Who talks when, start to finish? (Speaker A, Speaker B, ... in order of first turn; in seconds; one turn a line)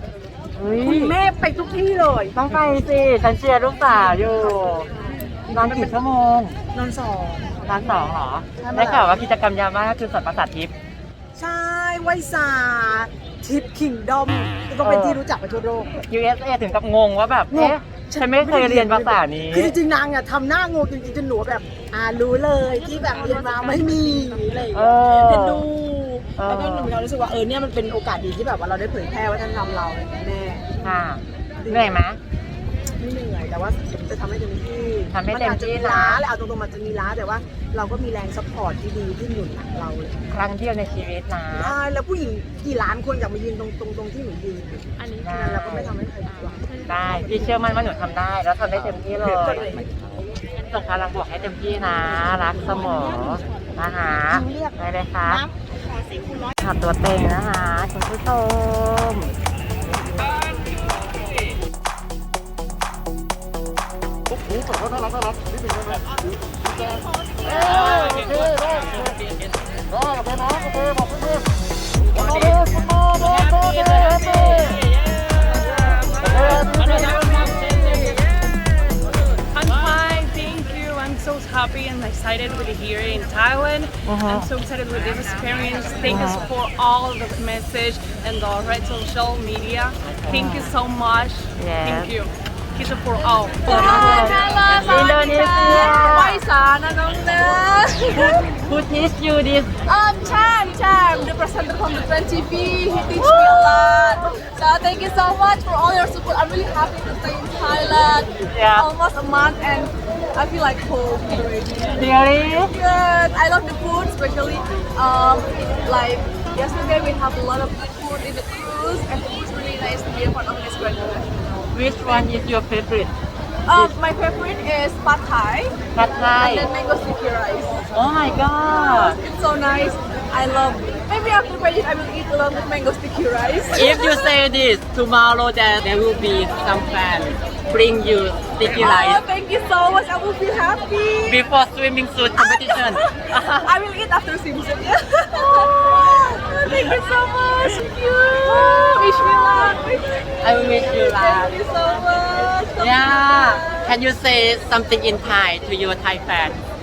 Speaker A: 0.5-1.2
Speaker B: 0.8-2.4
Speaker A: 2.3-4.9
Speaker B: 3.9-6.0
Speaker A: 5.5-6.6
Speaker B: 6.7-7.6
Speaker A: 7.6-10.7
Speaker B: 8.6-9.2
Speaker B: 11.3-16.0
Speaker A: 14.8-15.2
Speaker A: 16.0-19.7
Speaker B: 17.5-31.0
Speaker A: 22.6-25.7
Speaker A: 26.4-26.9
Speaker A: 30.8-32.2
Speaker B: 31.6-32.0
Speaker B: 33.0-40.2
Speaker A: 35.1-36.2
Speaker A: 40.3-41.8
Speaker B: 41.5-47.7
Speaker A: 45.2-45.9
Speaker A: 46.8-49.7
Speaker B: 49.1-49.9
Speaker A: 50.7-55.4
Speaker B: 54.1-56.4
Speaker A: 56.6-59.3
Speaker A: 67.6-68.6
Speaker A: 73.9-74.7
Speaker C: 76.7-77.9
Speaker C: 79.5-98.4
Speaker A: 84.0-84.5
Speaker A: 86.0-86.5
Speaker A: 90.0-90.7
Speaker A: 91.5-92.1
Speaker A: 93.6-96.4
Speaker A: 98.1-99.7
Speaker C: 99.8-112.1
Speaker A: 103.2-104.2
Speaker A: 108.5-108.9
Speaker A: 111.9-112.7
Speaker C: 112.6-121.3
Speaker A: 121.7-123.1
Speaker C: 123.7-125.8
Speaker A: 125.9-126.7
Speaker C: 126.4-127.8
Speaker A: 127.9-129.2
Speaker C: 128.6-134.3
Speaker A: 133.7-139.2
Speaker C: 138.7-141.4
Speaker A: 141.2-143.7
Speaker C: 142.4-153.9
Speaker A: 145.3-146.8
Speaker A: 148.4-149.3
Speaker A: 150.4-151.5
Speaker A: 152.8-156.6